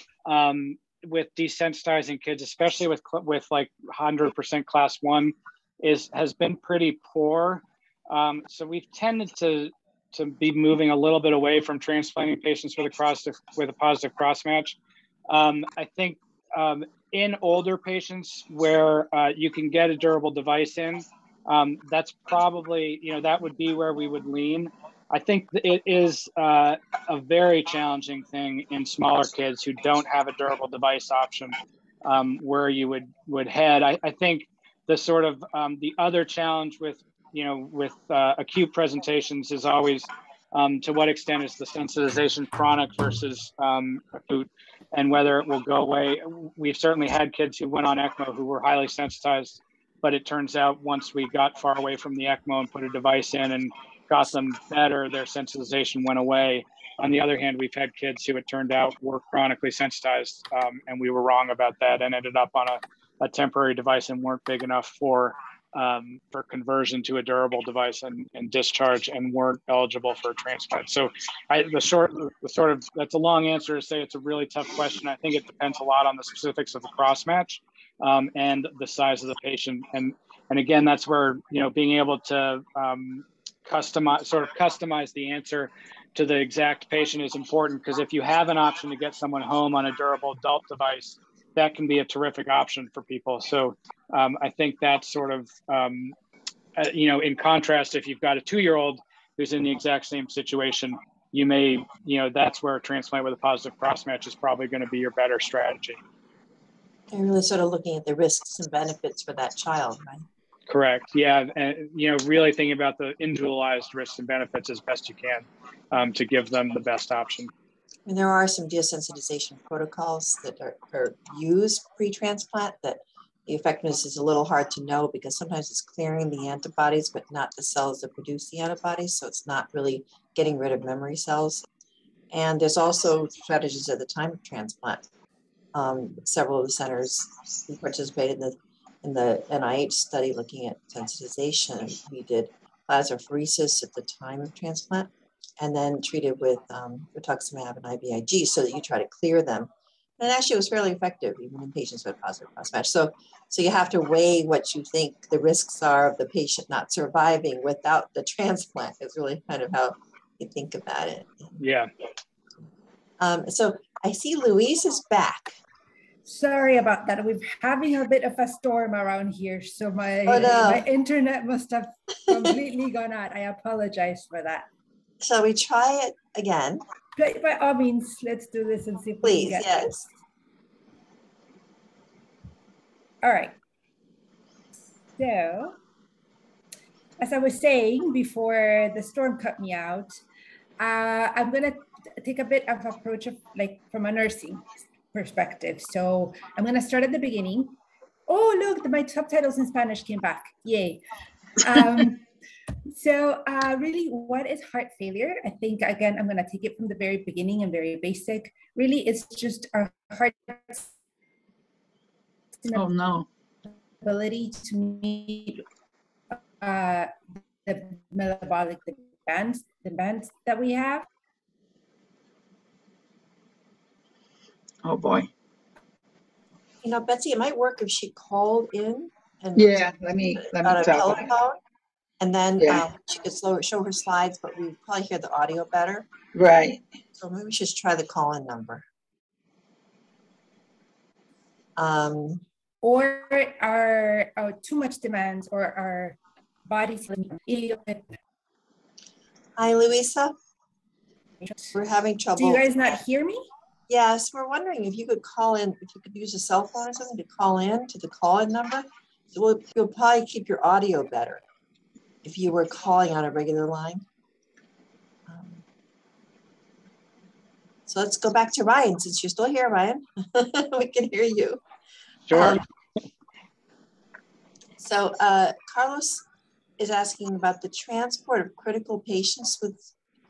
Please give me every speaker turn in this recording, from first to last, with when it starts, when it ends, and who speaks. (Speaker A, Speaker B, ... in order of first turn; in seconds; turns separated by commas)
Speaker A: 0.3-14.8, Speaker A: 15.3-96.1, Speaker A: 96.8-106.0, Speaker B: 107.1-110.3, Speaker A: 110.7-117.5, Speaker B: 118.1-131.7, Speaker B: 132.3-135.0, Speaker B: 135.7-161.6, Speaker A: 161.6-161.9, Speaker B: 163.2-165.6, Speaker C: 166.2-174.7, Speaker B: 170.3-170.9, Speaker B: 172.3-172.5, Speaker B: 175.2-176.8, Speaker C: 177.2-179.9, Speaker B: 179.2-180.1, Speaker C: 183.2-183.6, Speaker C: 185.2-185.8, Speaker C: 187.2-190.2, Speaker C: 190.8-201.0, Speaker C: 201.6-202.2, Speaker C: 202.9-210.9, Speaker C: 212.6-212.9, Speaker D: 212.7-213.3, Speaker C: 214.0-215.7, Speaker C: 216.6-217.1, Speaker C: 217.7-221.1, Speaker D: 224.8-225.3, Speaker B: 226.8-231.6, Speaker D: 229.6-231.3, Speaker B: 232.2-236.1, Speaker D: 232.6-232.8, Speaker D: 236.3-236.8, Speaker B: 237.2-238.8, Speaker B: 241.8-242.4, Speaker C: 242.8-248.1, Speaker B: 249.6-250.4, Speaker C: 251.4-251.8, Speaker B: 251.7-253.0, Speaker C: 252.4-253.5, Speaker B: 253.9-261.4, Speaker B: 262.2-264.1, Speaker B: 265.3-265.6, Speaker B: 267.9-271.6, Speaker A: 272.3-272.6, Speaker B: 272.3-272.6, Speaker B: 274.8-276.2, Speaker B: 276.8-279.9